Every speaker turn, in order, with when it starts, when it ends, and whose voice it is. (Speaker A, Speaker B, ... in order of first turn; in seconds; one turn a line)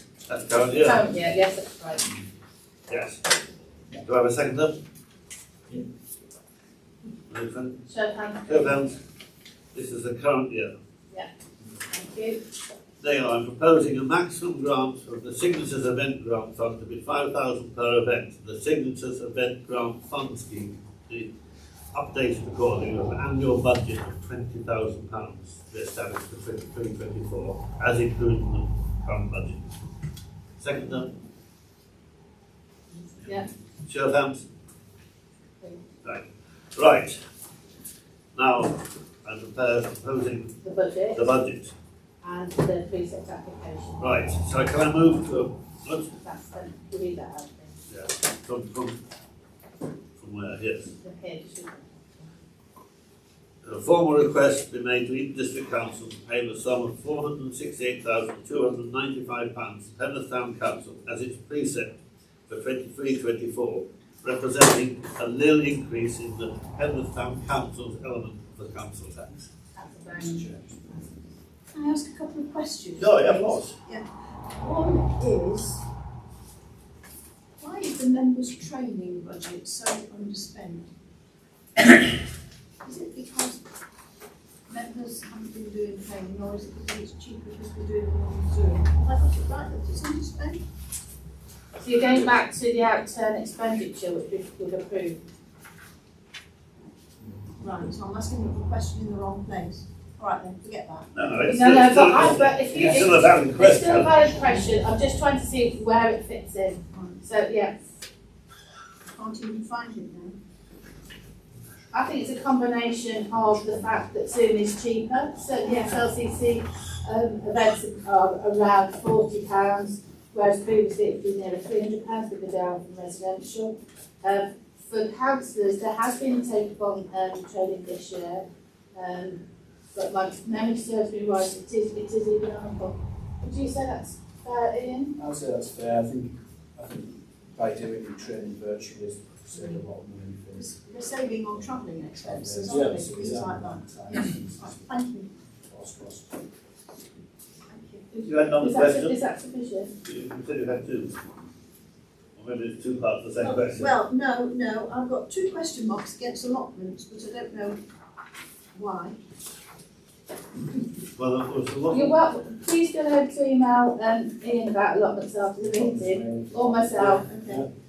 Speaker A: 0.3-1.0
Speaker B: 0.7-2.1
Speaker A: 2.9-3.2
Speaker A: 4.0-4.8
Speaker A: 7.3-7.8
Speaker B: 7.9-8.8
Speaker A: 8.5-9.0
Speaker A: 9.7-10.7
Speaker B: 11.9-12.4
Speaker A: 13.0-21.3
Speaker A: 21.9-29.6
Speaker A: 30.6-31.1
Speaker B: 33.2-33.5
Speaker A: 33.9-34.5
Speaker A: 36.0-37.2
Speaker A: 38.4-40.5
Speaker B: 40.6-41.3
Speaker A: 41.1-41.7
Speaker B: 42.2-44.1
Speaker A: 44.0-46.1
Speaker B: 46.1-47.7
Speaker A: 47.9-49.0
Speaker A: 50.2-50.9
Speaker B: 51.0-52.3
Speaker A: 53.6-61.9
Speaker A: 62.5-69.5
Speaker B: 69.8-71.2
Speaker C: 71.7-74.1
Speaker A: 73.0-73.7
Speaker C: 74.6-75.8
Speaker C: 77.6-80.9
Speaker C: 82.8-83.6
Speaker C: 84.7-90.6
Speaker B: 91.8-95.2
Speaker C: 97.6-101.1
Speaker A: 101.1-104.2
Speaker B: 101.5-107.7
Speaker C: 106.9-107.2
Speaker C: 109.1-110.4
Speaker B: 111.9-129.4
Speaker C: 115.6-116.0
Speaker B: 129.9-135.1
Speaker D: 135.2-140.7
Speaker C: 140.5-145.3
Speaker D: 141.6-145.0
Speaker D: 145.6-146.3
Speaker C: 147.7-148.0
Speaker B: 148.1-149.9
Speaker A: 148.2-149.2
Speaker A: 150.0-151.1
Speaker A: 152.3-153.9
Speaker C: 153.4-157.8
Speaker C: 158.7-159.2
Speaker A: 161.2-162.1
Speaker B: 161.9-167.2
Speaker D: 165.6-167.7
Speaker C: 166.9-167.6